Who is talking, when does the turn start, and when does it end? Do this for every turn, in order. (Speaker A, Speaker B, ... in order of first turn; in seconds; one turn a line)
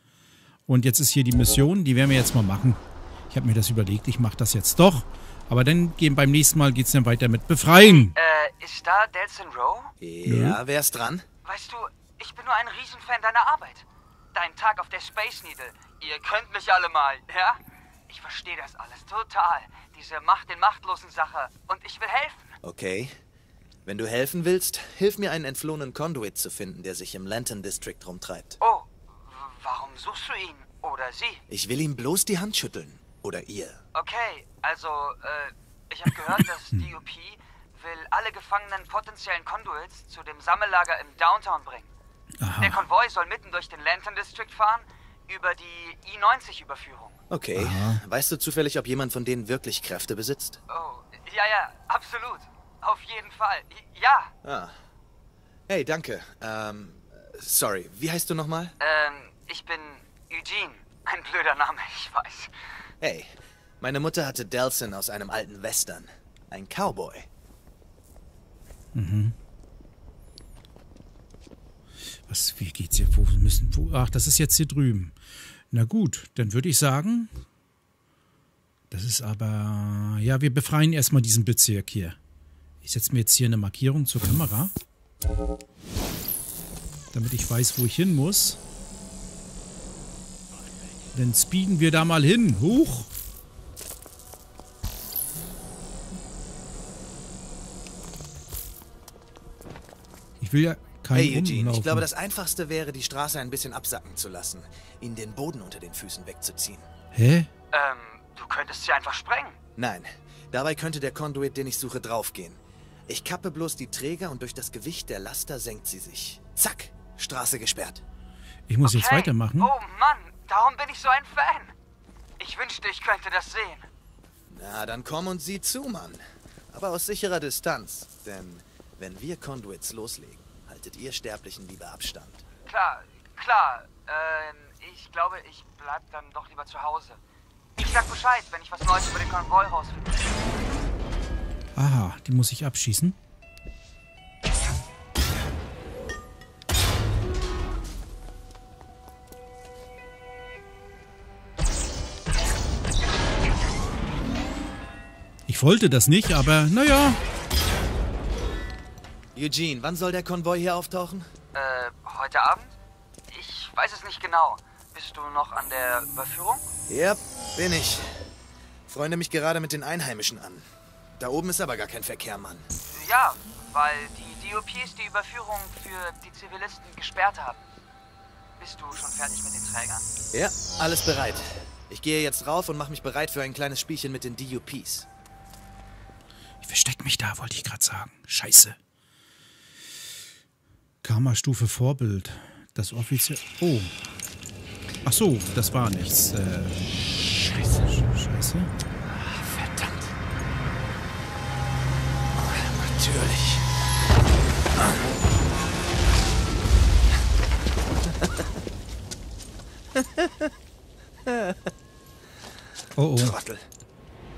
Speaker A: 0.7-8.2
Speaker B: 7.8-9.9
Speaker C: 10.0-11.2
Speaker A: 10.2-10.6
Speaker B: 11.4-22.6
Speaker C: 22.6-23.2
Speaker C: 23.9-28.6
Speaker B: 28.6-31.4
Speaker C: 31.5-33.8
Speaker B: 33.9-41.9
Speaker A: 42.4-42.8
Speaker B: 42.6-47.2
Speaker C: 47.3-50.6
Speaker A: 47.6-48.0
Speaker B: 50.7-54.3
Speaker C: 54.4-54.8
Speaker C: 55.7-58.8
Speaker B: 58.8-62.5
Speaker C: 63.0-67.3
Speaker A: 68.9-69.3
Speaker A: 72.3-75.2
Speaker A: 75.7-77.3
Speaker A: 78.9-82.2
Speaker A: 82.8-84.7
Speaker A: 87.1-88.6
Speaker A: 91.1-93.1
Speaker A: 100.4-102.1
Speaker C: 101.1-106.9
Speaker A: 107.1-107.5
Speaker B: 107.7-109.6
Speaker C: 109.8-118.0
Speaker A: 118.7-119.7
Speaker B: 118.8-121.7
Speaker B: 122.4-123.9
Speaker C: 124.5-132.4
Speaker B: 132.7-137.2
Speaker B: 137.8-140.4
Speaker A: 141.8-143.2
Speaker A: 155.5-157.2
Speaker C: 159.3-161.3
Speaker B: 161.5-162.8
Speaker B: 163.3-166.7
Speaker C: 166.9-168.3
Speaker C: 168.9-170.7
Speaker C: 171.2-172.7
Speaker B: 172.9-177.6
Speaker B: 178.6-180.1
Speaker C: 180.3-185.1
Speaker A: 186.6-188.8
Speaker A: 191.0-193.9
Speaker A: 195.1-196.8
Speaker A: 197.9-198.7
Speaker C: 199.0-200.1
Speaker C: 202.3-203.7
Speaker C: 204.8-205.1
Speaker C: 208.0-208.5
Speaker C: 209.9-210.5
Speaker C: 211.2-211.7
Speaker A: 213.0-213.4
Speaker C: 213.2-213.7